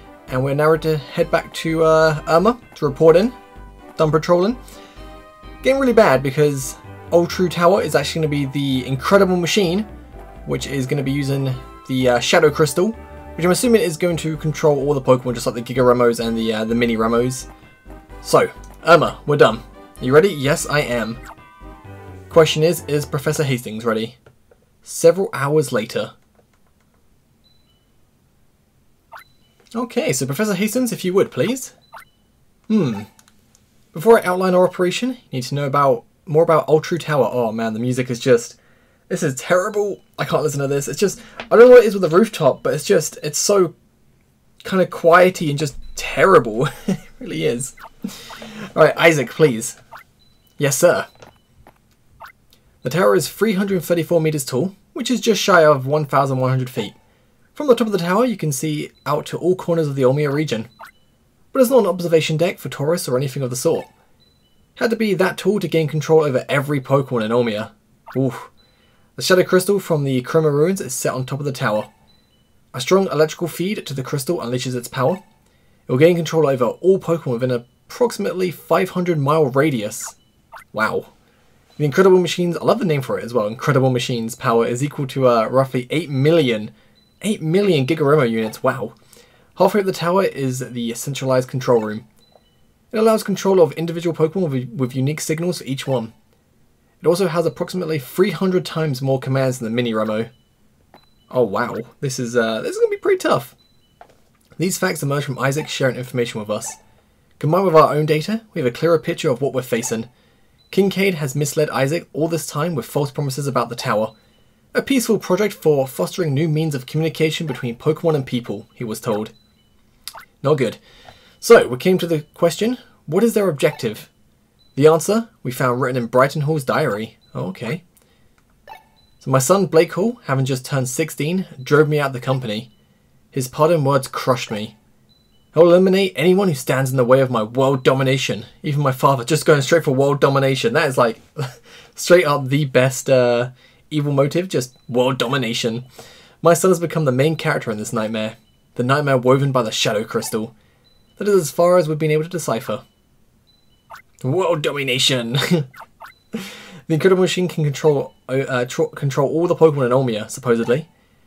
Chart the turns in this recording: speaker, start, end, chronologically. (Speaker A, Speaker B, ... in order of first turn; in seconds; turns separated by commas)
Speaker A: 0.3-3.4, Speaker A: 4.0-4.6, Speaker A: 5.6-9.9, Speaker A: 10.4-17.5, Speaker A: 18.2-21.2, Speaker A: 22.3-24.2, Speaker A: 24.8-26.1, Speaker A: 29.8-31.7, Speaker A: 32.7-33.1, Speaker A: 33.9-38.6, Speaker A: 39.1-43.8, Speaker A: 44.6-49.8, Speaker A: 50.6-51.1, Speaker A: 52.8-57.0, Speaker A: 57.5-60.7, Speaker A: 61.5-63.9, Speaker A: 64.8-68.5, Speaker A: 69.2-71.9, Speaker A: 72.7-75.2, Speaker A: 75.9-80.2, Speaker A: 80.7-81.1, Speaker A: 81.8-89.0, Speaker A: 89.6-92.1, Speaker A: 92.9-96.1, Speaker A: 97.0-100.3, Speaker A: 101.3-103.6, Speaker A: 104.6-106.8, Speaker A: 107.4-110.1, Speaker A: 110.7-114.1, Speaker A: 114.7-119.3, Speaker A: 120.4-120.8, Speaker A: 121.4-124.1, Speaker A: 124.8-127.8, Speaker A: 129.2-132.7, Speaker A: 133.3-134.8, Speaker A: 135.5-145.9, Speaker A: 146.4-150.6, Speaker A: 151.2-152.8, Speaker A: 154.2-155.7, Speaker A: 156.3-160.9